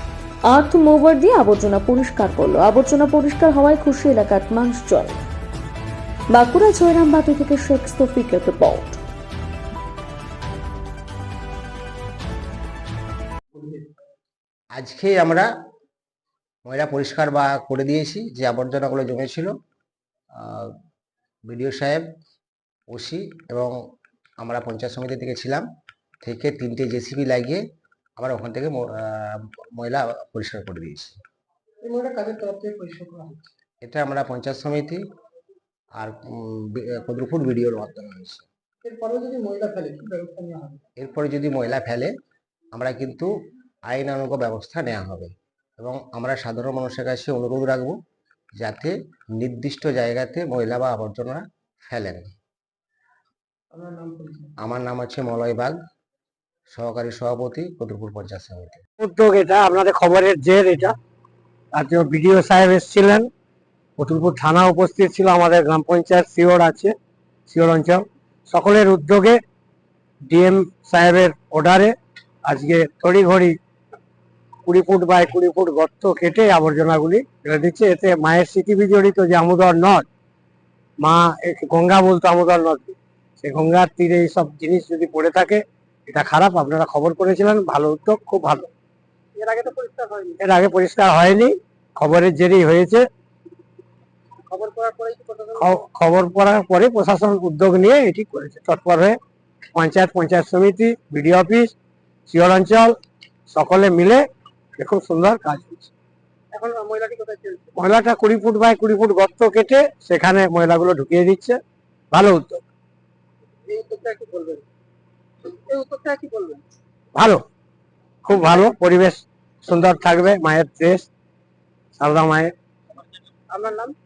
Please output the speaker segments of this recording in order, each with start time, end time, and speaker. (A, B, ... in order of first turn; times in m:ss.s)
0:00.5-0:05.2 A
0:06.3-0:09.0 A
0:13.5-0:13.9 B
0:14.8-0:15.5 C
0:16.7-0:19.5 C
0:20.3-0:20.7 C
0:21.5-0:22.0 C
0:22.9-0:23.8 C
0:24.4-0:25.6 C
0:26.2-0:27.6 C
0:28.2-0:31.2 C
0:31.8-0:33.5 B
0:33.8-0:35.0 C
0:36.0-0:38.5 C
0:38.8-0:40.8 B
0:41.0-0:42.1 C
0:42.7-0:43.3 C
0:43.9-0:48.0 C
0:48.6-0:52.3 C
0:53.7-0:54.6 B
0:54.6-0:55.8 C
0:56.7-0:58.8 C
0:59.0-1:01.0 D
1:01.7-1:03.3 D
1:04.0-1:06.9 D
1:07.5-1:09.4 D
1:10.2-1:11.9 D
1:12.5-1:13.6 D
1:14.6-1:20.1 D
1:21.0-1:28.7 D
1:29.4-1:30.4 B
1:30.4-1:33.1 D
1:34.5-1:35.8 B
1:35.6-1:39.2 D
1:39.8-1:41.7 D
1:42.3-1:43.0 D
1:43.5-1:44.2 D
1:44.8-1:45.9 D
1:46.5-1:47.7 B
1:47.8-1:51.6 D
1:52.1-1:52.6 D
1:53.7-1:54.6 B
1:55.4-1:56.6 B
1:57.2-1:57.4 D
1:58.2-2:01.1 D
2:02.0-2:02.5 D
2:03.5-2:04.0 B